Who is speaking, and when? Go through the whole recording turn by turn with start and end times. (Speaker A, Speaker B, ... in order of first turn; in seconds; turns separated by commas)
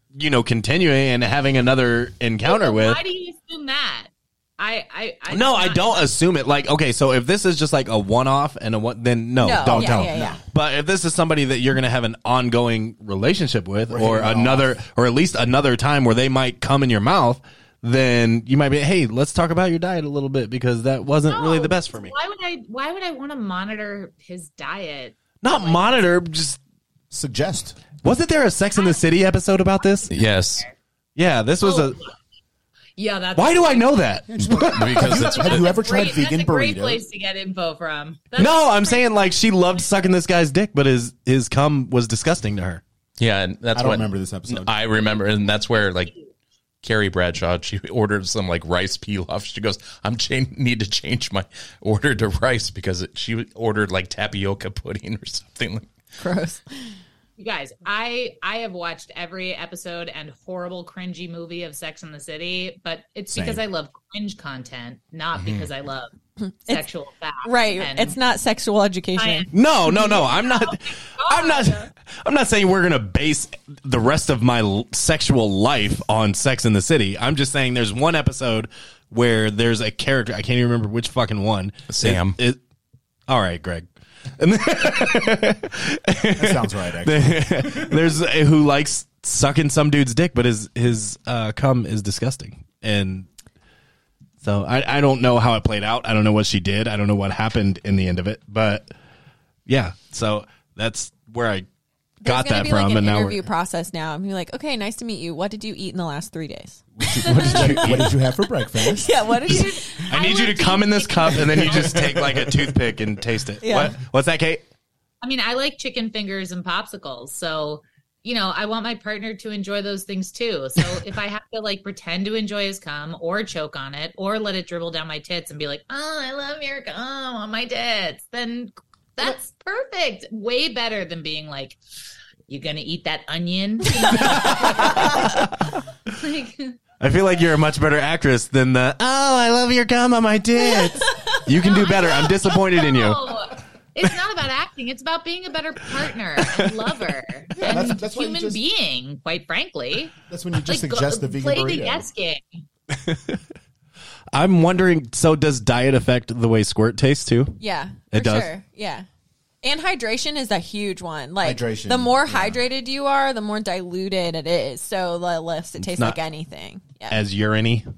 Speaker A: 0.1-3.0, Speaker B: 2.4-6.1, Speaker A: 5.3-22.1, Speaker C: 9.4-10.4, Speaker D: 9.6-10.4, Speaker D: 13.9-14.8, Speaker B: 21.3-26.1, Speaker A: 25.4-26.6, Speaker D: 27.1-27.8, Speaker A: 28.0-30.2, Speaker B: 30.0-30.8, Speaker E: 30.1-30.7, Speaker A: 31.2-32.0, Speaker B: 31.6-32.1, Speaker B: 33.0-34.2, Speaker A: 33.4-35.1, Speaker D: 34.3-37.0, Speaker E: 34.6-35.8, Speaker B: 35.1-39.2, Speaker A: 38.4-42.8, Speaker E: 43.2-46.1, Speaker D: 43.7-44.7, Speaker E: 46.8-55.9, Speaker C: 56.2-56.6, Speaker B: 57.4-66.1, Speaker D: 63.3-63.6, Speaker E: 65.4-65.7, Speaker C: 66.4-66.8, Speaker B: 66.7-68.2, Speaker C: 67.4-70.2, Speaker B: 69.2-71.9, Speaker A: 69.5-82.6, Speaker E: 81.9-82.4, Speaker A: 83.3-93.3, Speaker D: 86.4-88.1, Speaker A: 94.4-98.9, Speaker A: 99.7-101.7, Speaker A: 102.2-103.4, Speaker C: 102.2-108.1, Speaker D: 107.0-109.7, Speaker A: 107.2-108.1, Speaker C: 108.7-110.1, Speaker B: 109.3-112.1, Speaker A: 110.1-114.6, Speaker D: 111.6-112.6, Speaker C: 113.6-114.0, Speaker B: 115.2-131.8, Speaker B: 132.5-135.3, Speaker A: 134.2-135.7, Speaker B: 136.1-136.8, Speaker A: 137.0-143.3, Speaker B: 141.5-150.2, Speaker A: 146.4-146.7, Speaker D: 147.6-148.6, Speaker D: 150.3-152.1, Speaker B: 150.7-152.6, Speaker A: 152.9-153.4, Speaker A: 154.3-157.6, Speaker C: 157.6-159.1, Speaker A: 158.1-158.5, Speaker C: 159.6-167.2, Speaker D: 161.4-162.6, Speaker A: 165.8-166.2, Speaker A: 167.1-167.9